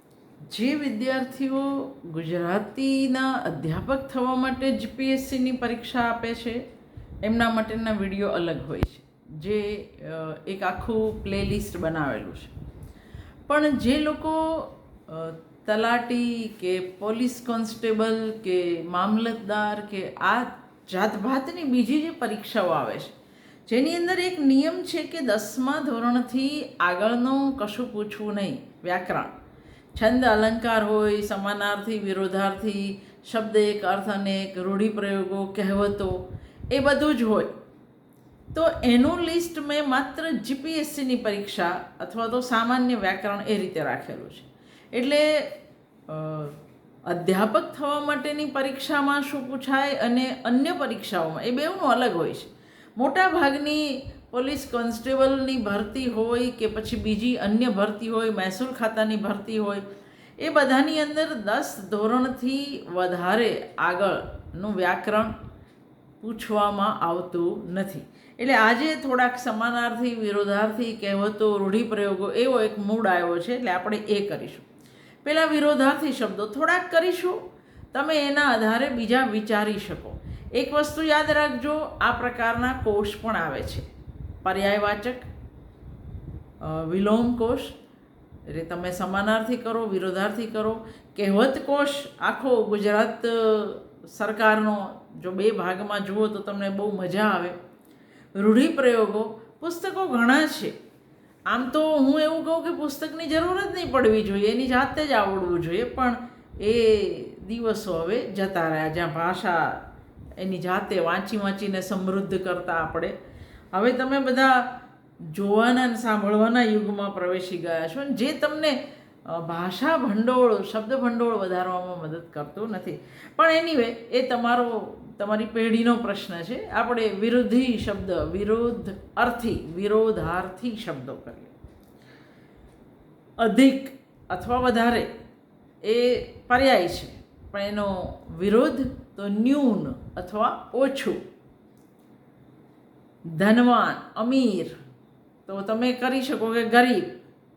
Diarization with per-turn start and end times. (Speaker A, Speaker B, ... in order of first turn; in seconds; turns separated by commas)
Speaker A: 0.5-6.6, Speaker A: 7.2-12.5, Speaker A: 13.5-23.1, Speaker A: 23.7-29.3, Speaker A: 29.9-37.5, Speaker A: 38.5-45.4, Speaker A: 46.1-59.9, Speaker A: 60.4-65.3, Speaker A: 66.2-74.7, Speaker A: 75.2-83.9, Speaker A: 84.4-85.3, Speaker A: 86.6-87.8, Speaker A: 88.5-97.6, Speaker A: 98.3-100.8, Speaker A: 101.5-109.8, Speaker A: 110.4-113.2, Speaker A: 113.7-114.7, Speaker A: 115.3-131.5, Speaker A: 133.4-135.1, Speaker A: 135.8-141.2, Speaker A: 143.3-144.8, Speaker A: 145.5-147.2